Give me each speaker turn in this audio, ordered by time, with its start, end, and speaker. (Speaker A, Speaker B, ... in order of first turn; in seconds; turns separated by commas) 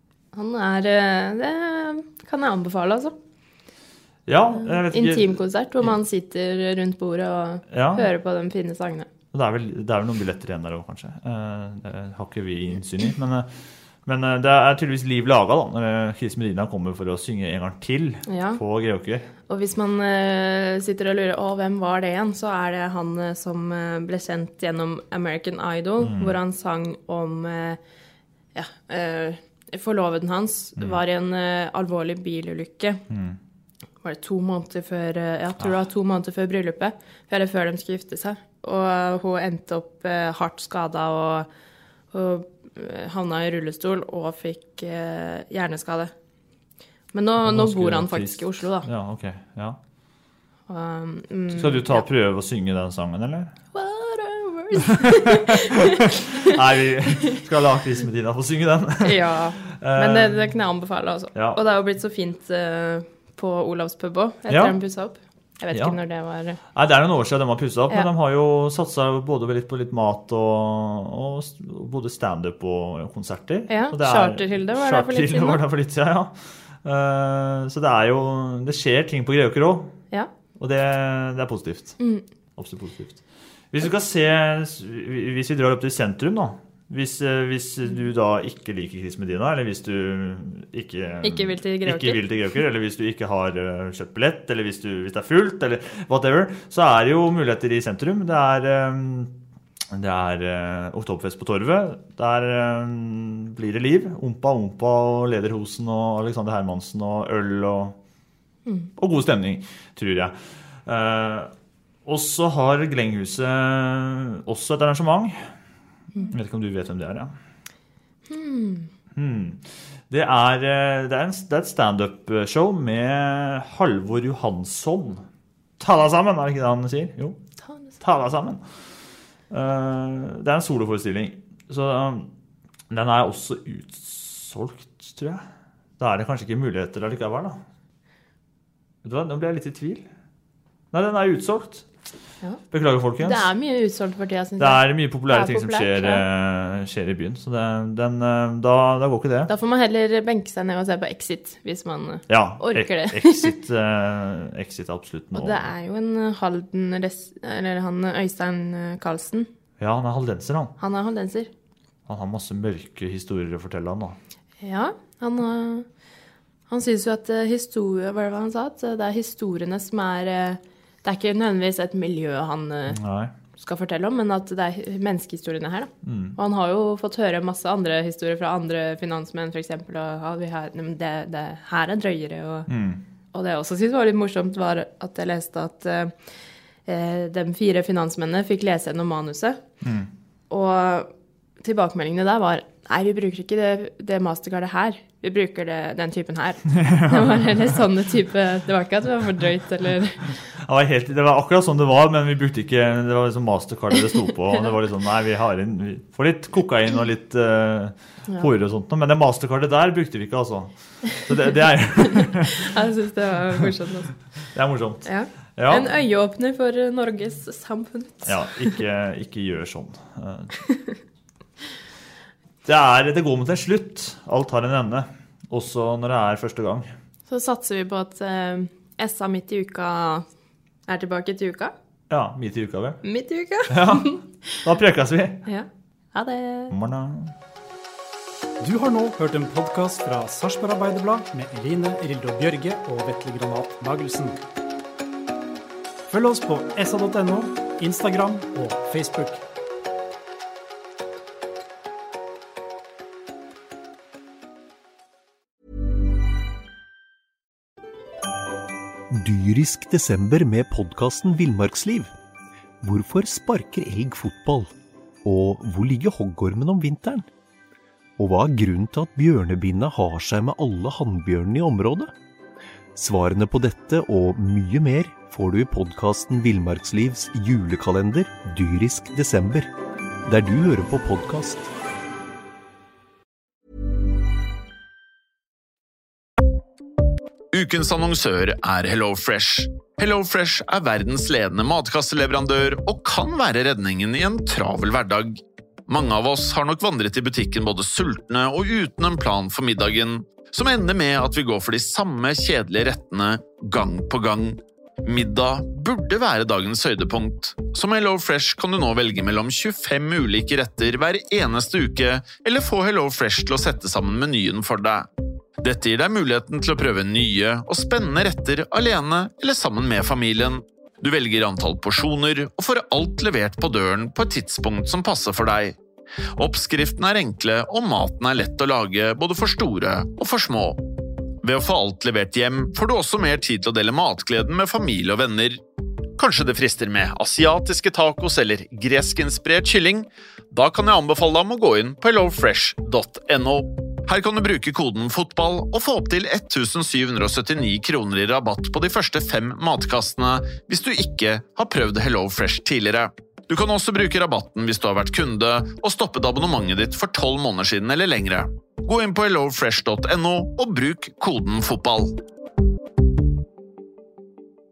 Speaker A: 0.3-3.1, Speaker B: 4.3-5.9, Speaker A: 4.7-9.1, Speaker B: 7.7-8.1, Speaker B: 9.3-13.5, Speaker B: 14.1-19.3, Speaker A: 18.3-18.6, Speaker A: 19.5-27.8, Speaker B: 26.0-26.3, Speaker A: 28.6-33.0, Speaker B: 33.1-33.4, Speaker A: 34.0-41.5, Speaker A: 42.1-46.1, Speaker A: 47.1-48.9, Speaker B: 47.4-49.8, Speaker A: 50.7-52.1, Speaker B: 51.5-53.5, Speaker A: 53.7-56.5, Speaker B: 56.0-60.5, Speaker A: 59.0-66.6, Speaker B: 61.4-61.6, Speaker B: 64.5-64.8, Speaker B: 65.7-66.0, Speaker B: 66.7-80.0, Speaker A: 73.7-75.6, Speaker B: 80.6-82.0, Speaker A: 82.0-82.2, Speaker B: 82.6-99.3, Speaker A: 91.2-92.2, Speaker B: 99.9-108.0, Speaker B: 109.0-111.5, Speaker B: 112.0-115.5, Speaker B: 116.3-117.3, Speaker A: 118.3-118.9, Speaker B: 119.2-125.2, Speaker B: 125.8-127.4, Speaker B: 128.0-128.9, Speaker B: 129.5-132.3, Speaker B: 132.9-135.4, Speaker B: 136.0-137.6, Speaker B: 139.0-140.1, Speaker B: 140.9-141.9, Speaker B: 142.7-143.5, Speaker A: 143.2-146.2, Speaker B: 144.6-149.5, Speaker A: 149.5-153.5, Speaker B: 152.3-155.7, Speaker A: 155.3-159.5, Speaker B: 159.8-160.7, Speaker A: 160.8-161.5, Speaker B: 162.1-164.2, Speaker A: 164.6-165.9, Speaker A: 166.7-173.0, Speaker B: 172.9-173.3, Speaker A: 173.6-182.7, Speaker B: 176.0-176.4, Speaker B: 182.7-183.0, Speaker A: 183.3-186.2, Speaker A: 186.9-189.6, Speaker B: 189.8-190.1, Speaker A: 190.5-200.3, Speaker B: 196.7-197.8, Speaker B: 200.7-212.6, Speaker A: 212.2-214.2, Speaker B: 214.5-215.9, Speaker A: 215.1-218.8, Speaker B: 218.3-220.7, Speaker A: 220.7-221.0, Speaker B: 222.7-226.9, Speaker A: 227.3-230.2, Speaker A: 230.9-231.7, Speaker B: 232.1-233.0, Speaker A: 233.0-234.6, Speaker B: 233.7-234.1, Speaker B: 234.6-235.4, Speaker A: 235.5-236.7, Speaker B: 236.7-237.3, Speaker C: 238.6-244.4, Speaker C: 246.1-249.4, Speaker D: 259.1-262.1, Speaker D: 262.8-264.7, Speaker D: 265.2-267.2, Speaker D: 268.2-272.1, Speaker D: 273.0-279.7, Speaker D: 280.3-281.7, Speaker E: 287.5-315.1, Speaker E: 315.6-325.8, Speaker E: 326.4-330.8, Speaker E: 331.4-335.6, Speaker E: 336.2-362.1